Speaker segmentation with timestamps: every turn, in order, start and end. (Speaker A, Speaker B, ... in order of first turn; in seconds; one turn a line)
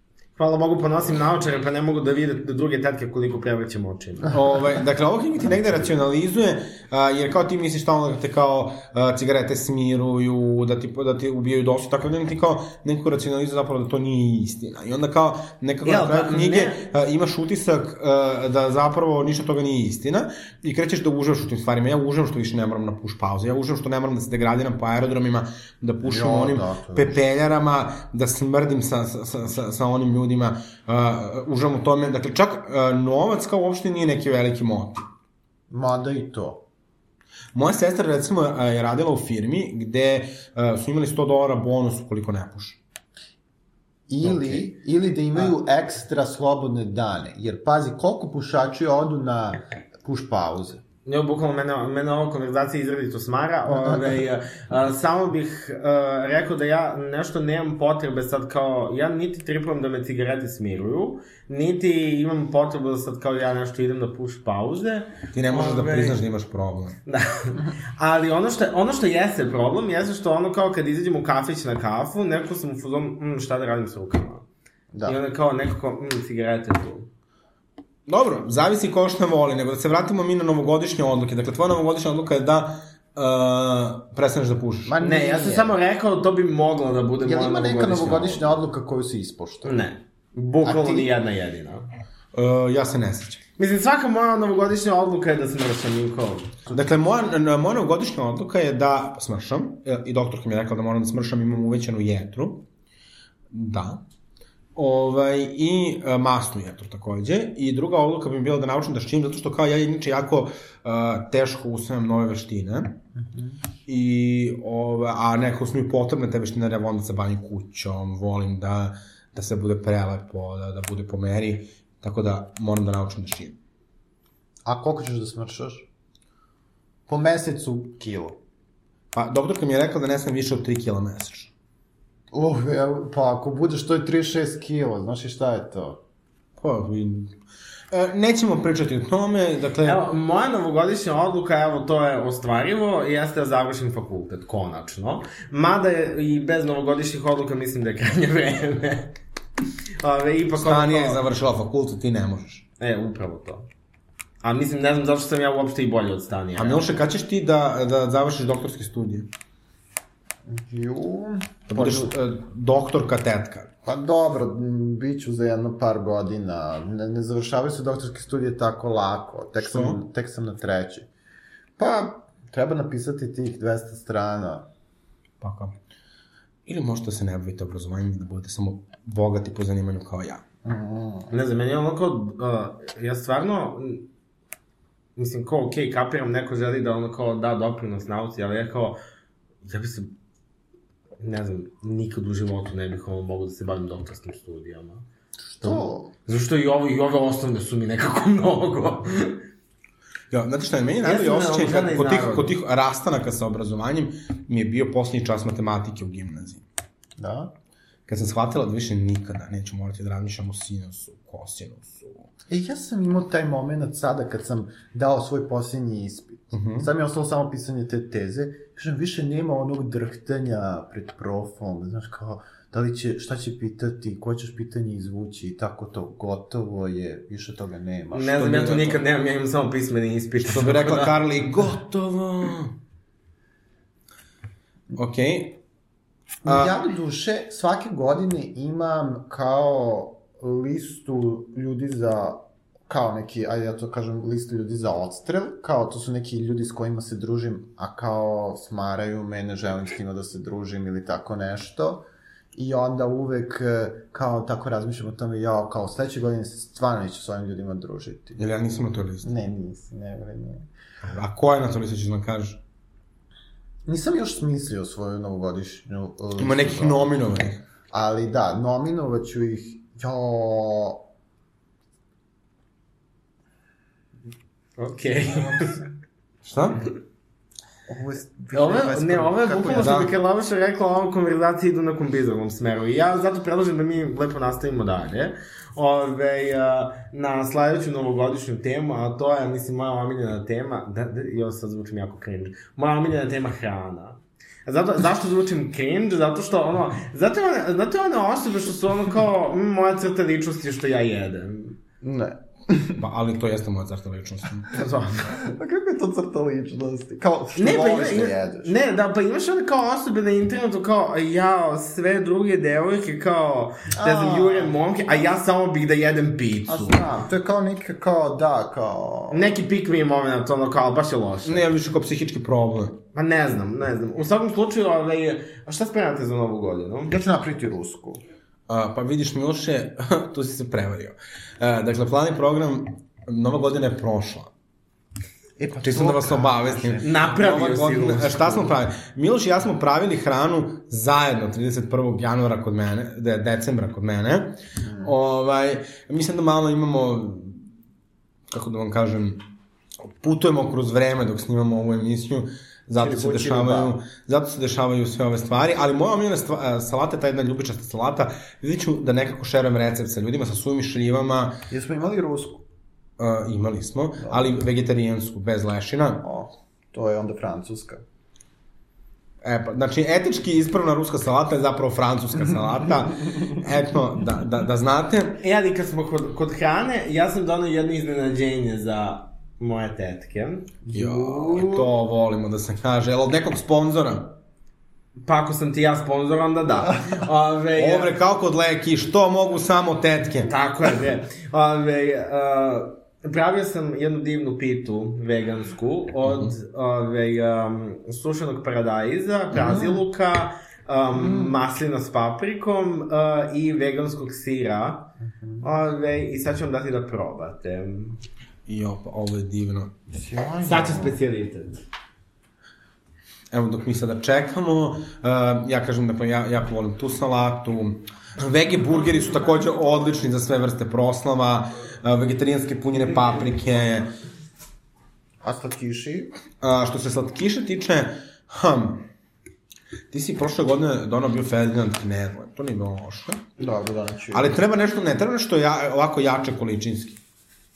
Speaker A: 0.4-4.3
Speaker B: 4.3-35.0
Speaker A: 15.8-16.8
Speaker C: 26.0-27.2
Speaker C: 35.7-36.6
Speaker B: 37.5-42.8
Speaker C: 44.1-50.8
Speaker B: 44.2-44.6
Speaker A: 51.0-66.2
Speaker C: 53.8-54.1
Speaker B: 65.3-67.0
Speaker A: 67.0-74.4
Speaker C: 74.9-75.2
Speaker A: 75.0-77.1
Speaker B: 78.1-85.0
Speaker C: 84.8-85.7
Speaker A: 85.0-88.5
Speaker C: 87.2-89.8
Speaker A: 89.6-91.8
Speaker C: 90.6-91.1
Speaker B: 92.3-93.4
Speaker A: 93.6-96.6
Speaker B: 96.7-102.6
Speaker B: 103.5-104.0
Speaker B: 104.8-113.0
Speaker C: 113.1-113.6
Speaker B: 113.9-123.5
Speaker C: 124.6-125.9
Speaker C: 127.1-128.4
Speaker B: 129.1-131.5
Speaker C: 132.3-136.0
Speaker B: 136.6-137.3
Speaker B: 137.9-140.0
Speaker A: 139.8-149.1
Speaker A: 150.0-151.2
Speaker B: 150.6-152.6
Speaker A: 152.8-153.7
Speaker A: 154.4-156.9
Speaker B: 156.6-159.3
Speaker C: 160.4-162.1
Speaker B: 161.7-163.7
Speaker C: 163.8-171.1
Speaker B: 169.6-170.0
Speaker C: 171.8-174.7
Speaker B: 175.4-175.7
Speaker B: 176.7-180.4
Speaker C: 180.6-181.3
Speaker A: 181.3-184.1
Speaker A: 185.2-189.0
Speaker A: 189.6-190.1
Speaker A: 191.2-195.0
Speaker C: 195.5-196.1
Speaker A: 195.6-199.4
Speaker B: 200.3-206.6
Speaker A: 201.0-202.5
Speaker C: 207.2-207.5
Speaker B: 208.1-212.3
Speaker C: 212.5-228.5
Speaker B: 216.5-216.9
Speaker A: 228.1-231.1
Speaker B: 228.3-229.0
Speaker B: 230.4-232.7
Speaker B: 234.9-235.6
Speaker C: 236.4-258.4
Speaker B: 236.4-236.7
Speaker B: 258.4-259.3
Speaker C: 259.2-260.7
Speaker B: 261.0-262.6
Speaker C: 263.9-267.2
Speaker B: 266.4-267.6
Speaker C: 267.9-271.0
Speaker A: 274.8-275.7
Speaker C: 275.3-275.9
Speaker B: 276.4-276.8
Speaker C: 277.9-279.9
Speaker A: 278.5-301.8
Speaker B: 279.7-280.1
Speaker C: 302.0-303.0
Speaker B: 303.0-304.8
Speaker A: 304.7-305.3
Speaker C: 305.3-308.7
Speaker A: 307.6-317.0
Speaker C: 313.9-314.8
Speaker C: 316.7-319.5
Speaker A: 319.3-321.6
Speaker B: 321.4-323.0
Speaker A: 323.1-327.1
Speaker C: 327.1-328.2
Speaker B: 328.7-334.5
Speaker C: 335.6-337.1
Speaker B: 335.8-347.6
Speaker A: 337.0-338.7
Speaker C: 344.8-345.1
Speaker B: 348.5-349.4
Speaker B: 350.1-361.6
Speaker C: 353.0-353.9
Speaker C: 361.7-362.6
Speaker B: 363.2-366.2
Speaker C: 364.2-364.5
Speaker C: 366.2-368.0
Speaker B: 369.4-375.4
Speaker A: 375.4-380.7
Speaker C: 380.8-381.9
Speaker B: 380.9-384.3
Speaker A: 385.2-388.1
Speaker B: 387.8-390.5
Speaker A: 390.4-405.1
Speaker B: 396.2-396.5
Speaker C: 399.5-400.0
Speaker C: 401.1-401.6
Speaker C: 405.2-405.6
Speaker A: 405.6-408.2
Speaker B: 408.7-409.9
Speaker C: 410.1-411.2
Speaker A: 410.6-411.8
Speaker B: 413.5-424.1
Speaker C: 425.4-426.3
Speaker B: 426.6-429.0
Speaker B: 430.1-433.4
Speaker C: 433.6-434.6
Speaker B: 434.3-437.2